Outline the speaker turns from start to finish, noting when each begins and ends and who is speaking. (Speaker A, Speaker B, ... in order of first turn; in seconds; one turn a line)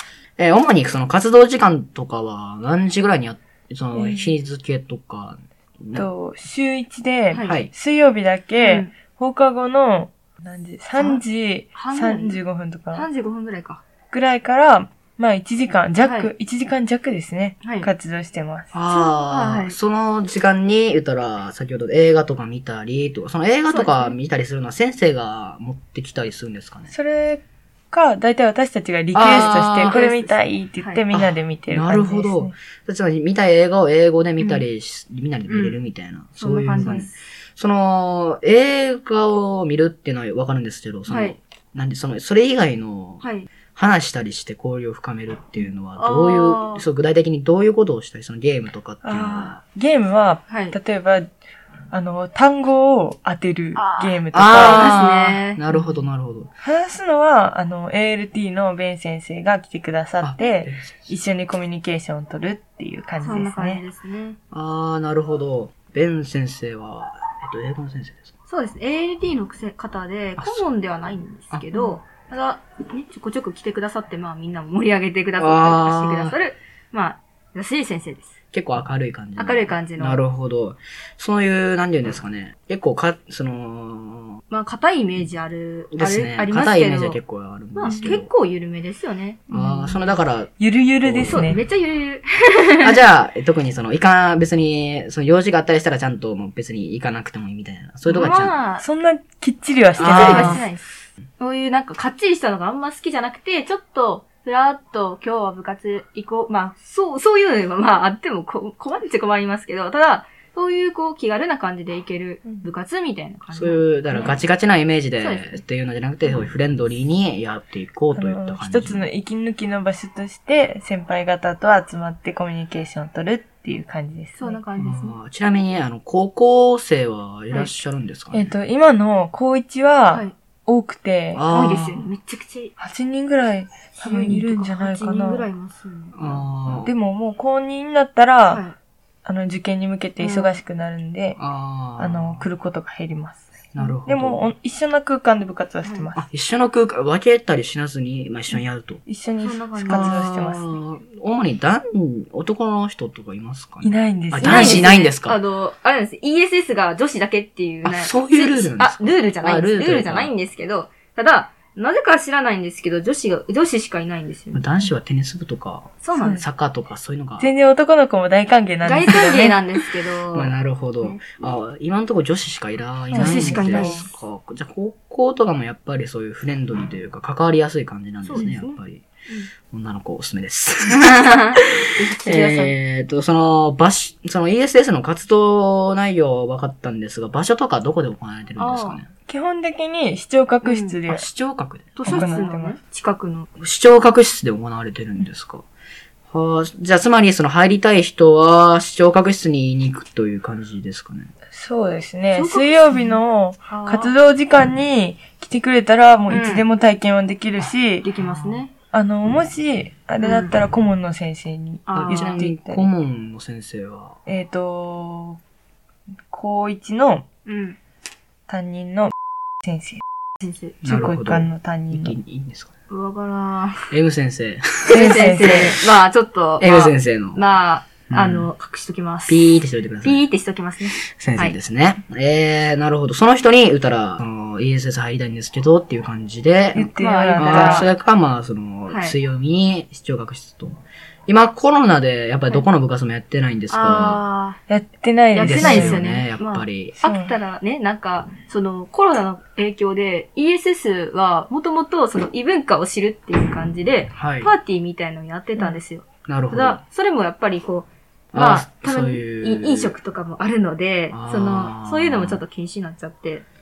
Speaker A: 0.4-6.1
Speaker B: 3.9-4.3
Speaker B: 5.9-13.1
Speaker C: 7.3-7.6
Speaker A: 7.4-7.7
Speaker C: 8.6-8.9
Speaker C: 10.9-11.2
Speaker C: 11.7-12.4
Speaker C: 12.9-13.8
Speaker B: 14.1-18.7
Speaker C: 16.0-16.3
Speaker C: 17.6-17.9
Speaker A: 18.7-26.9
Speaker C: 18.9-19.8
Speaker C: 23.7-24.2
Speaker B: 26.9-32.5
Speaker A: 29.1-30.0
Speaker C: 29.2-31.0
Speaker A: 31.1-49.6
Speaker C: 34.4-34.6
Speaker C: 35.5-35.8
Speaker C: 36.4-37.1
Speaker C: 41.1-41.4
Speaker C: 43.2-43.5
Speaker C: 45.6-46.8
Speaker B: 49.0-51.3
Speaker C: 50.5-50.8
Speaker B: 51.9-54.9
Speaker C: 53.7-55.6
Speaker A: 54.3-56.5
Speaker B: 55.7-56.0
Speaker B: 56.6-63.8
Speaker A: 60.2-61.1
Speaker C: 63.2-64.4
Speaker A: 64.5-68.3
Speaker C: 68.5-78.3
Speaker A: 70.4-70.7
Speaker A: 71.5-71.8
Speaker A: 75.4-76.4
Speaker A: 78.5-84.4
Speaker C: 79.4-80.2
Speaker C: 84.5-87.2
Speaker A: 85.9-88.3
Speaker C: 87.7-89.5
Speaker B: 87.8-88.2
Speaker B: 89.5-90.0
Speaker A: 89.5-91.6
Speaker B: 90.6-91.6
Speaker C: 91.3-92.9
Speaker A: 92.8-98.6
Speaker C: 98.0-98.8
Speaker B: 98.8-100.7
Speaker C: 100.0-100.8
Speaker A: 100.0-100.7
Speaker C: 101.4-114.4
Speaker A: 113.5-119.1
Speaker C: 115.2-115.6
Speaker B: 118.1-124.6
Speaker C: 124.4-125.2
Speaker A: 124.8-128.5
Speaker B: 128.3-131.4
Speaker C: 130.1-130.3
Speaker A: 131.3-132.1
Speaker C: 131.5-132.7
Speaker B: 132.8-135.5
Speaker C: 134.0-136.8
Speaker A: 136.2-136.9
Speaker B: 136.8-138.6
Speaker C: 138.5-138.8
Speaker B: 139.2-141.4
Speaker C: 140.2-140.6
Speaker A: 141.4-142.4
Speaker B: 142.0-143.5
Speaker A: 143.7-144.5
Speaker B: 144.0-146.2
Speaker C: 145.8-146.1
Speaker A: 146.1-149.0
Speaker B: 149.1-150.8
Speaker C: 149.4-150.2
Speaker A: 149.8-155.4
Speaker B: 153.8-154.9
Speaker C: 154.4-164.7
Speaker A: 157.8-160.3
Speaker A: 164.5-167.5
Speaker C: 166.0-166.4
Speaker B: 166.2-166.4
Speaker B: 167.4-169.6
Speaker C: 168.8-171.4
Speaker A: 170.3-179.0
Speaker B: 173.1-174.1
Speaker C: 173.1-174.1
Speaker C: 178.2-179.5
Speaker A: 179.7-181.6
Speaker C: 180.9-182.7
Speaker A: 182.2-189.1
Speaker B: 182.3-182.7
Speaker C: 188.6-189.0
Speaker B: 189.3-191.2
Speaker C: 190.6-191.0
Speaker A: 191.1-192.5
Speaker C: 191.9-193.5
Speaker B: 192.1-192.8
Speaker A: 193.6-195.6
Speaker A: 196.3-201.3
Speaker B: 201.5-208.1
Speaker C: 202.3-204.1
Speaker C: 206.3-206.7
Speaker C: 208.0-208.7
Speaker A: 208.2-208.6
Speaker B: 208.9-212.9
Speaker C: 210.2-210.6
Speaker C: 211.9-212.5
Speaker A: 211.9-214.2
Speaker B: 214.2-215.4
Speaker B: 216.3-217.2
Speaker C: 217.4-217.8
Speaker B: 218.5-220.0
Speaker C: 220.4-220.8
Speaker A: 220.8-222.7
Speaker B: 220.8-222.2
Speaker C: 222.9-223.9
Speaker A: 223.9-225.8
Speaker C: 224.9-231.6
Speaker B: 224.9-225.8
Speaker A: 226.6-227.4
Speaker A: 228.1-228.5
Speaker A: 229.3-230.2
Speaker A: 231.0-244.2
Speaker B: 236.7-237.9
Speaker C: 236.9-237.9
Speaker C: 238.9-239.2
Speaker C: 243.7-244.6
Speaker B: 244.7-246.2
Speaker C: 245.3-263.4
Speaker A: 245.4-246.9
Speaker B: 247.0-247.3
Speaker A: 254.1-254.5
Speaker A: 256.2-256.8
Speaker A: 258.3-259.9
Speaker A: 261.1-262.4